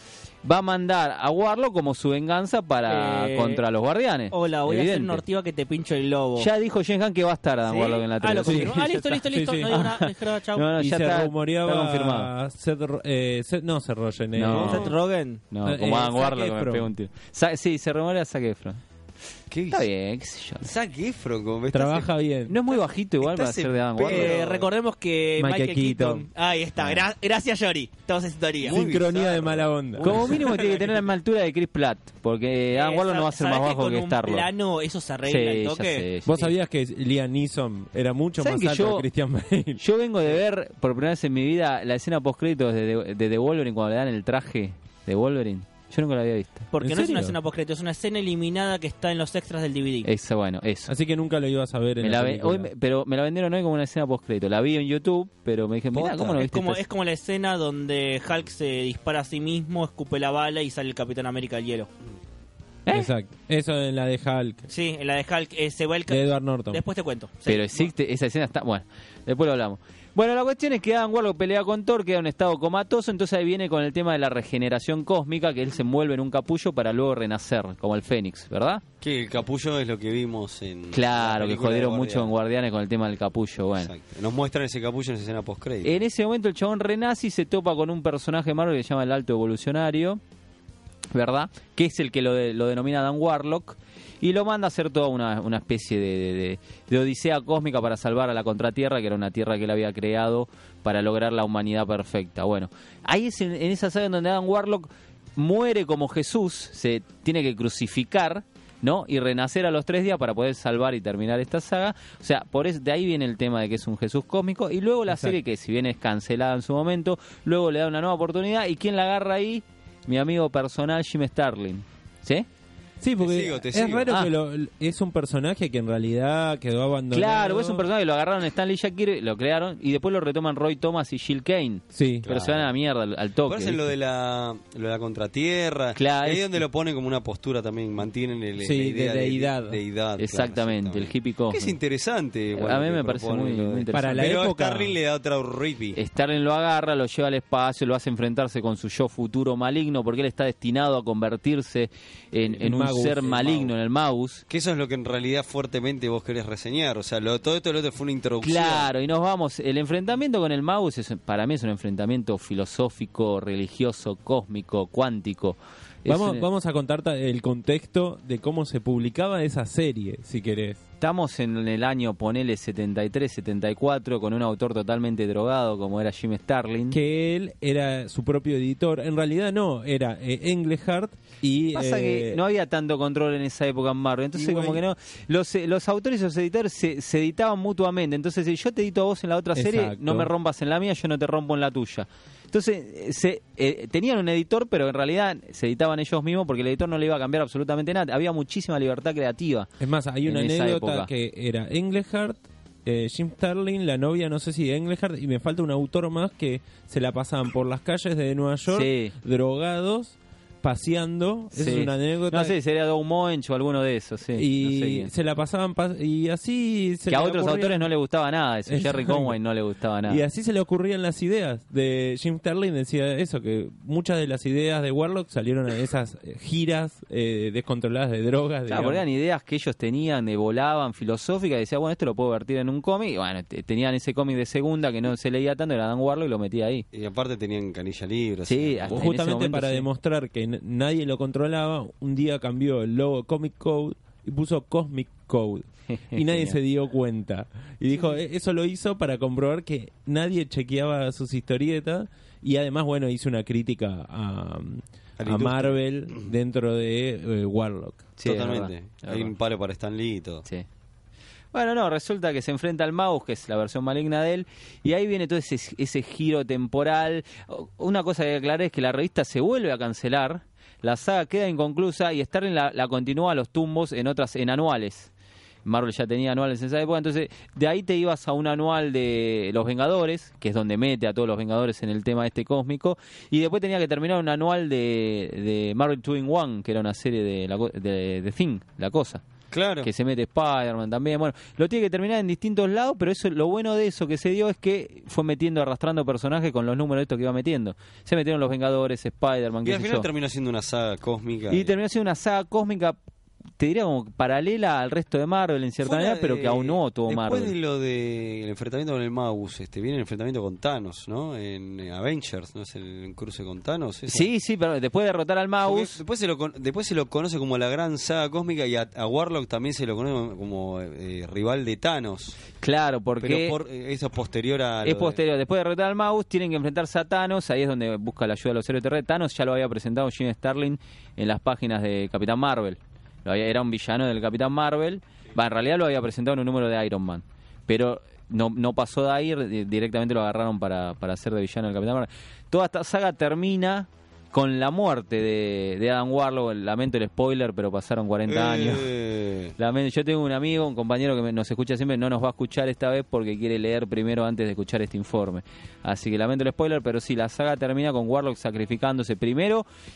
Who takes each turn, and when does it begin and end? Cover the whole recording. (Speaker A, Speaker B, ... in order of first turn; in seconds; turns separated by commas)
Speaker A: 0.4-5.2, Speaker B: 2.9-3.6, Speaker B: 4.3-6.5, Speaker A: 6.4-9.2, Speaker B: 7.7-10.7, Speaker C: 8.4-9.8, Speaker A: 9.7-12.3, Speaker C: 10.8-14.9, Speaker A: 14.3-14.9, Speaker B: 14.5-15.4, Speaker A: 15.5-18.8, Speaker C: 15.7-16.9, Speaker D: 19.5-19.9, Speaker A: 19.7-20.7, Speaker D: 20.6-22.1, Speaker C: 21.7-22.6, Speaker A: 22.5-24.4, Speaker B: 23.3-28.8, Speaker D: 23.4-24.7, Speaker C: 25.4-26.3, Speaker C: 28.6-30.6, Speaker D: 28.6-30.9, Speaker A: 30.0-34.5, Speaker B: 32.7-36.1, Speaker A: 35.3-36.5, Speaker C: 36.3-39.8, Speaker A: 38.4-39.1, Speaker A: 39.8-46.7, Speaker B: 46.7-50.1, Speaker C: 46.8-47.4, Speaker A: 50.0-50.9, Speaker C: 50.9-52.7, Speaker A: 52.0-56.8, Speaker D: 55.9-56.4, Speaker B: 56.4-61.9, Speaker C: 62.9-64.7, Speaker B: 64.7-67.9, Speaker C: 66.1-66.8, Speaker A: 67.5-78.8, Speaker D: 79.0-82.3, Speaker A: 80.9-83.9, Speaker D: 83.8-86.0, Speaker A: 85.8-90.2, Speaker A: 91.1-122.5, Speaker C: 115.1-115.4, Speaker C: 123.0-127.9, Speaker D: 123.2-124.1, Speaker A: 127.1-133.8, Speaker C: 131.9-132.3, Speaker D: 132.2-132.7, Speaker D: 133.5-146.0, Speaker A: 135.9-136.6, Speaker C: 138.6-139.8, Speaker A: 140.2-141.8, Speaker A: 142.6-144.5, Speaker C: 143.9-145.0, Speaker A: 145.9-154.4, Speaker C: 152.5-153.7, Speaker D: 154.5-158.9, Speaker A: 158.4-166.4, Speaker C: 166.1-170.8, Speaker A: 171.0-177.0, Speaker C: 176.9-182.4, Speaker A: 181.7-199.7, Speaker C: 184.3-184.8, Speaker C: 189.5-190.3, Speaker C: 199.8-212.6, Speaker A: 200.2-201.1, Speaker A: 208.7-209.1, Speaker A: 211.5-215.1, Speaker C: 214.4-217.9, Speaker A: 217.1-220.2, Speaker C: 218.7-219.4, Speaker C: 220.1-229.0, Speaker A: 228.7-236.9, Speaker D: 236.9-239.0, Speaker A: 238.5-239.9, Speaker C: 238.9-258.1, Speaker A: 245.9-246.6, Speaker D: 255.2-256.3, Speaker A: 258.2-259.3, Speaker D: 258.2-260.4, Speaker A: 261.5-275.1, Speaker A: 275.6-289.2, Speaker D: 289.5-289.9, Speaker A: 289.8-300.1, Speaker D: 299.6-301.7, Speaker A: 301.5-303.0, Speaker A: 303.6-307.5, Speaker D: 305.8-314.3, Speaker A: 314.1-316.0, Speaker D: 315.6-322.4, Speaker A: 322.6-323.6, Speaker D: 323.2-325.2, Speaker A: 324.8-348.9, Speaker D: 348.3-349.5, Speaker A: 349.6-359.7